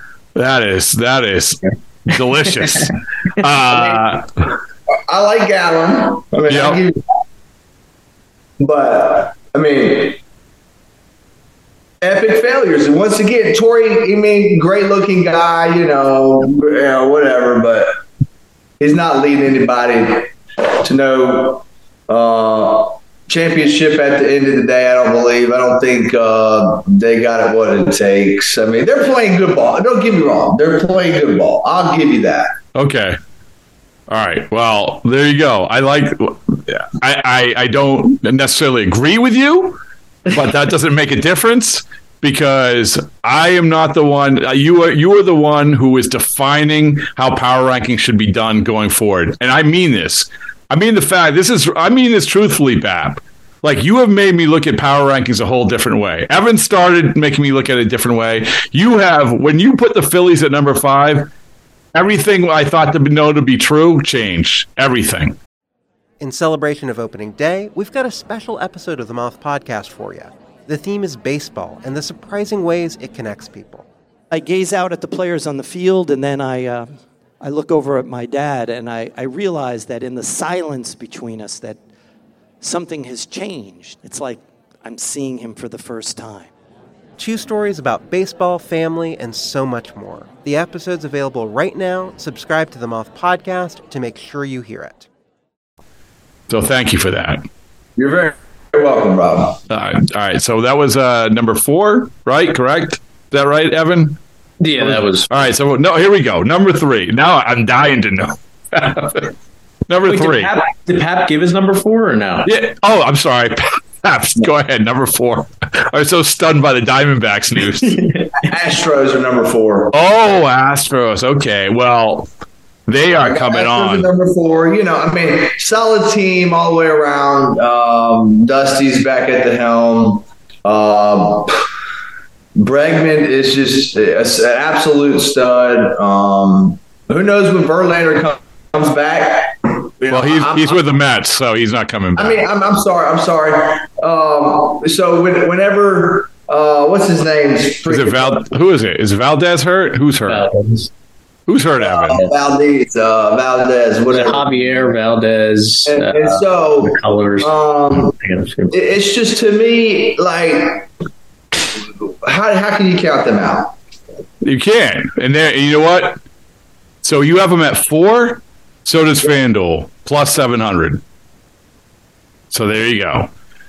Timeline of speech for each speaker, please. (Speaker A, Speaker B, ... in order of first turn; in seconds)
Speaker A: 0.4-4.2, 6.5-6.8, 32.8-33.2, 34.1-61.3, 61.9-65.4, 96.5-97.4, 99.7-104.2, 104.8-109.3, 109.9-110.5, 112.5-118.0, 119.9-122.3, 122.9-124.1, 140.1-142.4, 147.9-150.5, 151.5-152.2, 164.4-166.2, 167.0-171.0, 172.5-173.3
Speaker B: 3.7-4.0, 5.1-7.0, 8.6-10.2, 12.0-17.9, 18.8-20.3, 20.8-32.5, 98.0-99.6, 118.5-119.9, 123.1-131.6, 132.6-140.9, 142.2-148.4, 151.8-154.9, 155.9-158.1, 158.7-160.9, 162.2-163.7
Speaker C: 66.2-73.9, 87.2-95.1
Speaker D: 74.3-81.8, 82.6-86.5
Speaker E: 104.6-105.3, 110.0-112.5, 117.8-118.3, 150.3-150.9, 154.1-158.7